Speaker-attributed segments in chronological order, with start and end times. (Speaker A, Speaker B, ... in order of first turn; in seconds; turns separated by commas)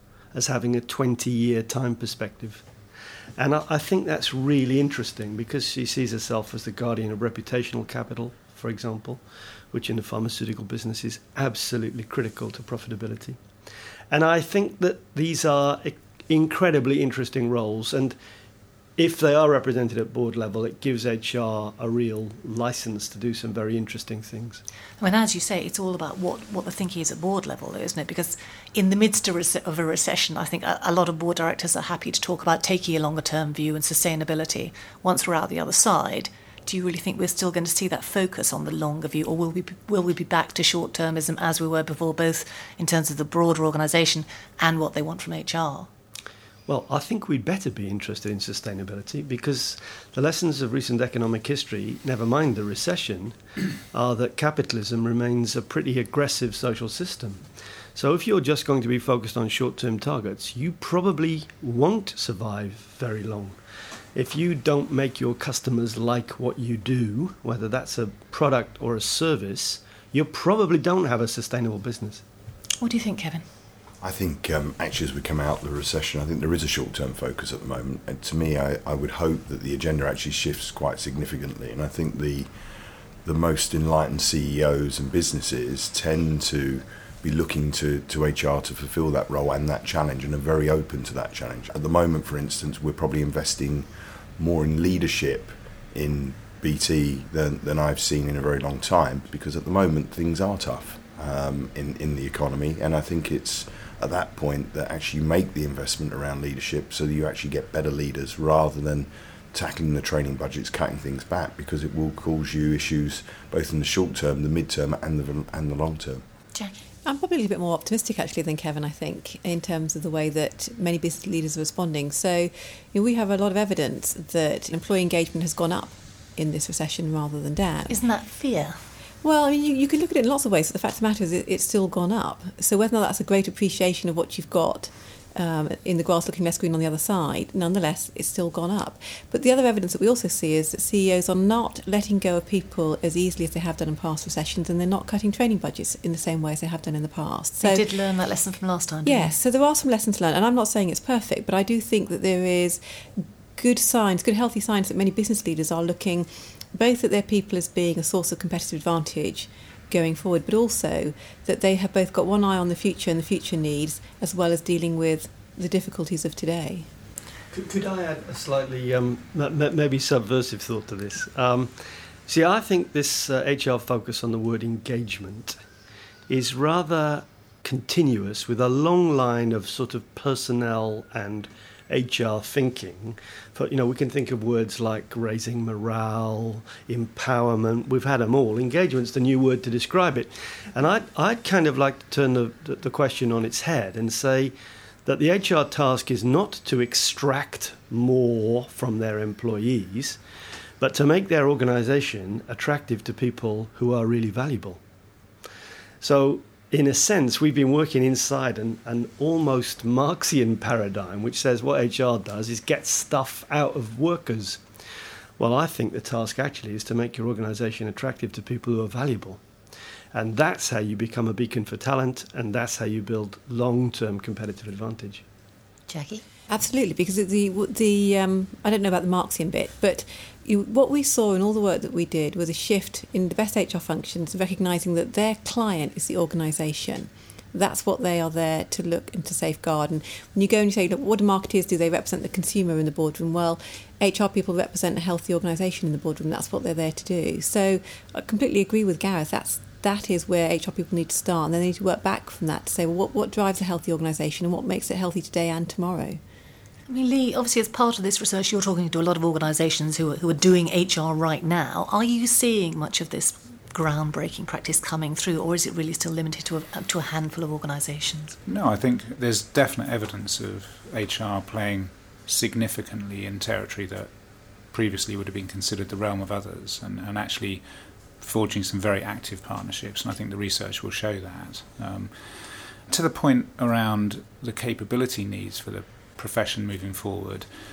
Speaker A: 0.3-2.7, Speaker A: 3.4-13.4, Speaker A: 14.1-18.2, Speaker A: 18.9-24.6, Speaker B: 25.0-45.9, Speaker A: 46.7-53.4, Speaker A: 53.9-63.6, Speaker A: 64.1-72.2, Speaker B: 72.8-73.5, Speaker C: 74.0-82.5, Speaker C: 83.2-116.2, Speaker D: 117.0-128.0, Speaker B: 127.9-128.8, Speaker D: 129.2-147.8, Speaker B: 147.6-149.3, Speaker D: 149.0-166.9, Speaker A: 167.5-175.6, Speaker A: 176.3-194.5, Speaker A: 195.0-200.2, Speaker A: 200.8-204.8, Speaker A: 206.0-214.6, Speaker A: 215.4-219.4, Speaker A: 220.1-225.2, Speaker B: 225.9-226.2, Speaker D: 226.5-256.2, Speaker B: 256.9-268.4, Speaker E: 268.4-274.1, Speaker E: 274.7-277.6, Speaker E: 278.2-287.5